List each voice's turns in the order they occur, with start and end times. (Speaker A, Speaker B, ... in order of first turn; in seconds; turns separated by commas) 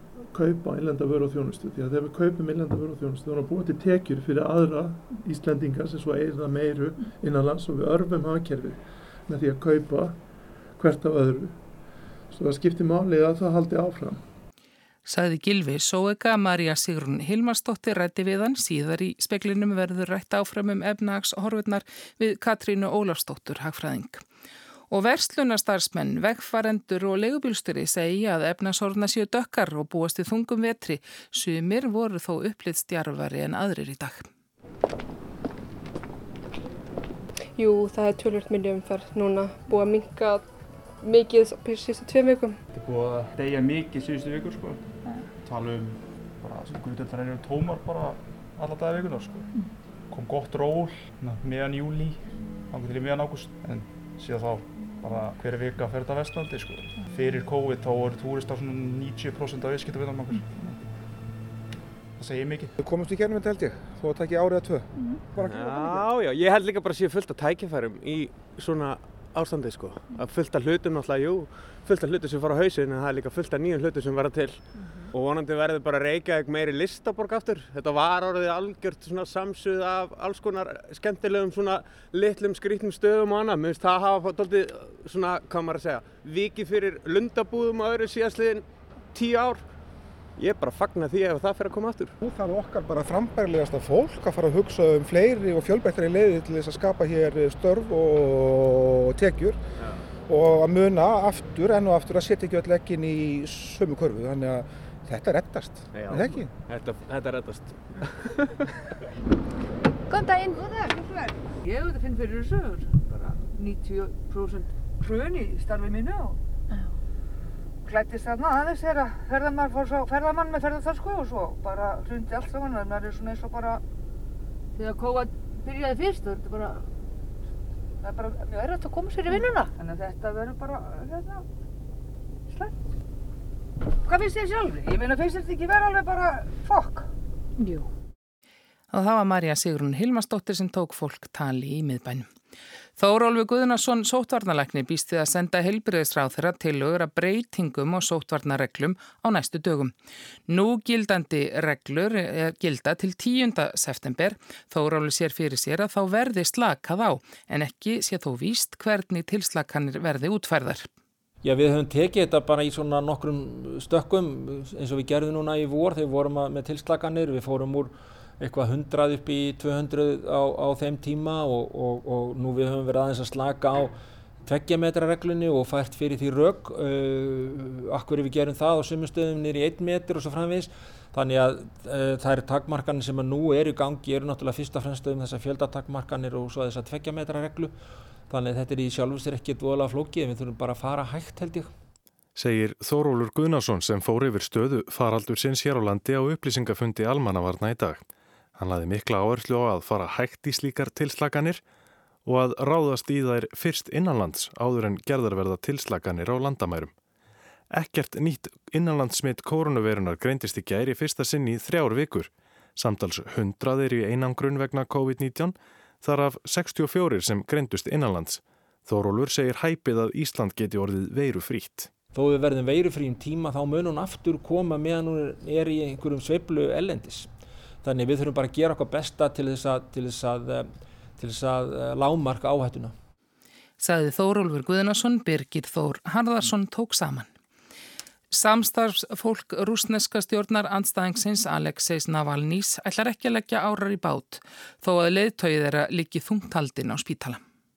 Speaker A: 0.3-14.3, Speaker B: 15.1-24.2, Speaker B: 24.9-34.3, Speaker C: 37.6-40.5, Speaker C: 41.0-42.6, Speaker D: 42.7-49.5, Speaker D: 50.1-60.8, Speaker D: 62.2-62.7, Speaker E: 62.8-66.1, Speaker F: 65.3-89.7, Speaker F: 90.4-92.1, Speaker E: 92.2-99.6, Speaker E: 100.3-106.6, Speaker F: 105.9-108.5, Speaker G: 110.1-116.8, Speaker G: 117.8-123.8, Speaker G: 124.7-126.8, Speaker G: 128.0-131.4, Speaker G: 134.1-137.1, Speaker B: 138.9-142.3, Speaker B: 143.0-149.9, Speaker B: 150.5-160.9, Speaker H: 161.4-187.8, Speaker H: 188.3-191.7, Speaker I: 192.3-201.6, Speaker I: 202.2-206.9, Speaker I: 207.7-221.9, Speaker H: 222.1-227.3, Speaker H: 227.8-232.9, Speaker B: 233.8-237.3, Speaker B: 238.3-247.4